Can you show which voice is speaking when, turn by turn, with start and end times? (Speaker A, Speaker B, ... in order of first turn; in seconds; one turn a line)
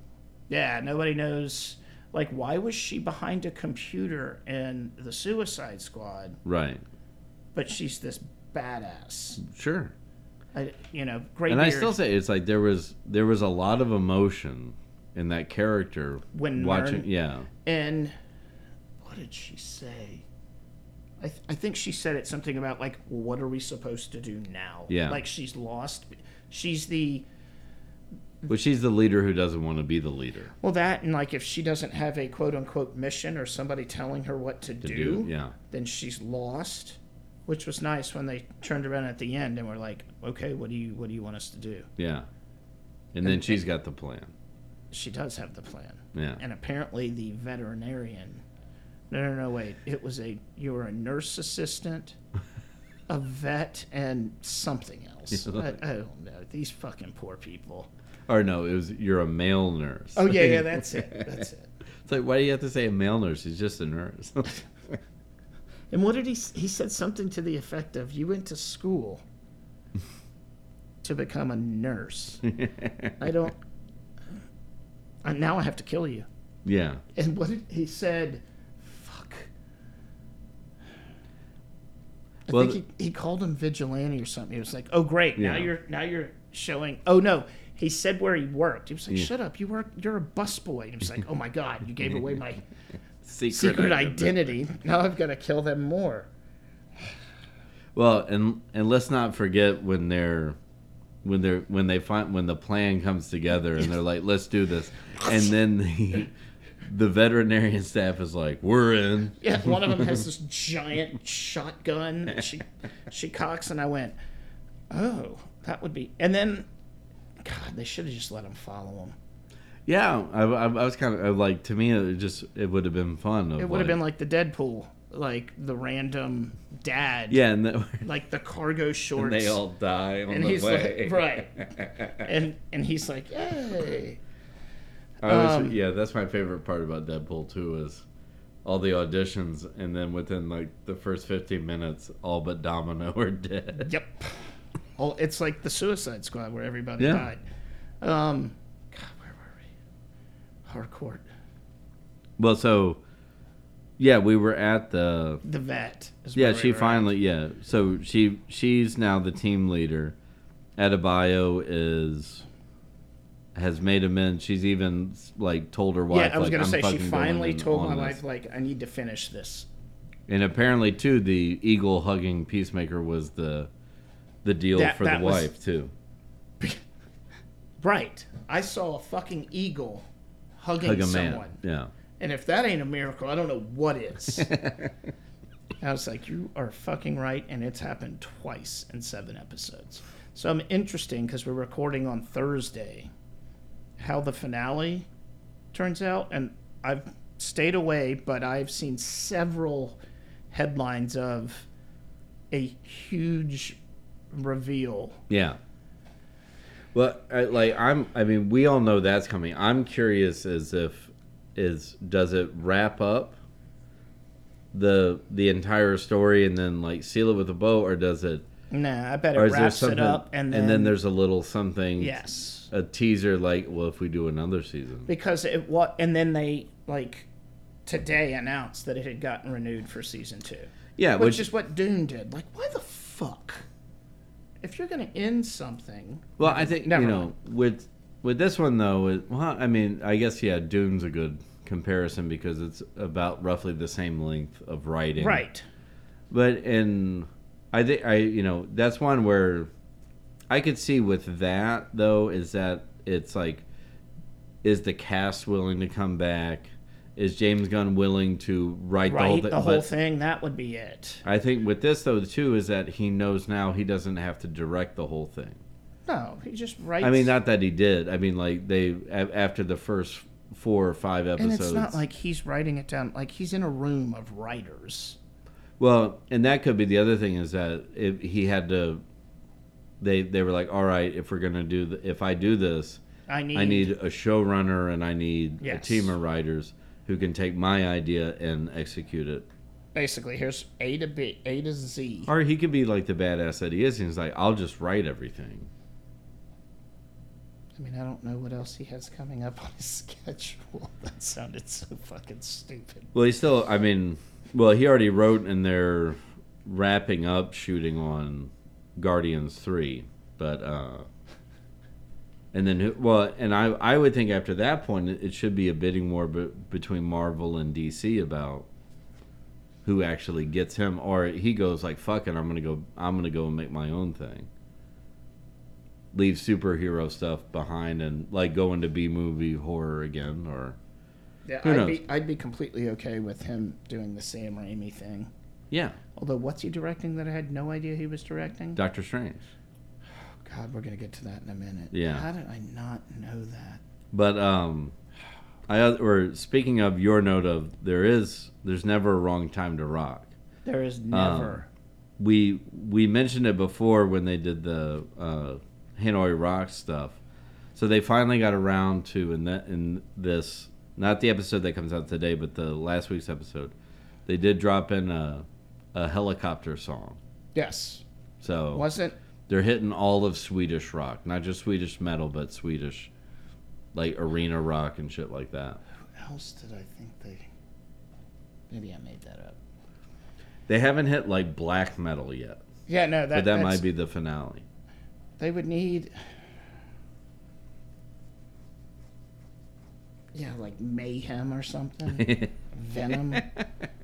Speaker A: 0.5-6.4
Speaker B: 6.4-6.8
Speaker A: 7.5-9.4
Speaker B: 9.4-9.9
Speaker A: 10.5-12.0
Speaker B: 11.5-17.5
Speaker A: 16.3-17.1
Speaker A: 17.6-18.1
Speaker A: 19.0-20.2
Speaker A: 21.2-27.3
Speaker B: 24.9-25.2
Speaker B: 28.5-30.5
Speaker A: 30.6-41.9
Speaker B: 34.8-35.5
Speaker B: 42.0-42.3
Speaker B: 43.1-44.3
Speaker A: 43.2-43.6
Speaker A: 44.9-48.4
Speaker B: 46.1-46.4
Speaker A: 49.1-52.1
Speaker A: 53.1-57.9
Speaker B: 58.3-61.4
Speaker A: 60.1-61.6
Speaker B: 62.0-64.6
Speaker A: 65.9-69.2
Speaker A: 71.0-72.4
Speaker B: 72.5-73.2
Speaker A: 73.2-73.5
Speaker A: 75.2-76.3
Speaker B: 76.6-77.0
Speaker A: 77.1-79.5
Speaker B: 82.5-82.8
Speaker A: 82.5-92.6
Speaker B: 85.3-85.7
Speaker B: 93.2-94.5
Speaker A: 93.5-96.3
Speaker B: 97.9-100.6
Speaker B: 101.2-106.3
Speaker B: 106.8-109.4
Speaker A: 109.4-114.2
Speaker A: 114.9-116.7
Speaker A: 117.4-119.2
Speaker B: 119.9-124.0
Speaker A: 123.6-127.4
Speaker B: 127.3-128.1
Speaker A: 128.0-129.6
Speaker B: 129.2-132.2
Speaker A: 130.3-134.2
Speaker B: 135.2-138.0
Speaker A: 135.2-135.8
Speaker B: 138.6-143.9
Speaker A: 143.8-144.3
Speaker A: 145.0-147.4
Speaker B: 147.0-147.3
Speaker A: 148.0-149.7
Speaker A: 150.6-151.2
Speaker B: 152.4-153.0
Speaker B: 154.0-155.4
Speaker A: 155.4-157.1
Speaker B: 156.3-160.2
Speaker B: 160.8-162.4
Speaker B: 163.5-168.2
Speaker A: 166.1-169.7
Speaker B: 170.3-173.7
Speaker B: 174.4-175.9
Speaker A: 174.7-175.5
Speaker A: 177.8-180.1
Speaker A: 180.6-181.6
Speaker B: 180.8-181.9
Speaker A: 182.2-184.5
Speaker B: 184.4-184.9
Speaker A: 185.8-193.1
Speaker A: 194.0-195.1
Speaker A: 195.7-200.0
Speaker A: 200.5-201.7
Speaker A: 202.5-203.8
Speaker A: 204.3-205.2
Speaker B: 205.3-205.6
Speaker B: 206.9-213.4
Speaker B: 214.7-218.4
Speaker A: 218.7-220.9
Speaker B: 219.3-222.2
Speaker A: 222.0-222.7
Speaker B: 222.7-225.1
Speaker A: 225.1-227.3
Speaker A: 227.8-233.6
Speaker B: 231.0-231.5
Speaker A: 234.6-237.3
Speaker B: 236.4-245.4
Speaker A: 245.2-245.6
Speaker B: 246.3-249.7
Speaker B: 250.5-253.6
Speaker B: 254.6-259.9
Speaker A: 259.1-261.2
Speaker B: 261.2-265.6
Speaker A: 266.1-267.3
Speaker B: 267.0-272.0
Speaker A: 271.4-275.2
Speaker B: 275.8-279.0
Speaker B: 280.0-283.0
Speaker A: 283.3-283.9
Speaker B: 283.5-289.5
Speaker A: 285.6-286.1
Speaker A: 289.9-292.3
Speaker B: 292.3-295.7
Speaker A: 297.8-303.1
Speaker B: 303.1-311.1
Speaker B: 312.5-318.7
Speaker B: 319.8-324.5
Speaker B: 326.1-330.8
Speaker A: 331.4-335.3
Speaker B: 331.6-332.0
Speaker B: 335.7-336.0
Speaker A: 336.1-338.8
Speaker B: 338.8-339.5
Speaker A: 340.4-343.8
Speaker B: 341.9-342.2
Speaker B: 344.1-344.9
Speaker B: 345.7-350.3
Speaker A: 350.6-351.7
Speaker B: 351.1-351.6
Speaker B: 352.2-357.2
Speaker B: 357.7-363.7
Speaker B: 364.3-367.2
Speaker A: 367.5-368.0
Speaker B: 368.4-368.9
Speaker A: 368.7-369.2
Speaker B: 369.5-373.1
Speaker B: 373.9-375.8
Speaker A: 376.1-377.5
Speaker A: 378.7-379.6
Speaker B: 380.7-382.6
Speaker A: 382.9-383.8
Speaker B: 383.3-384.6
Speaker A: 385.4-386.1
Speaker A: 390.3-393.5
Speaker B: 392.1-392.5
Speaker B: 393.3-393.6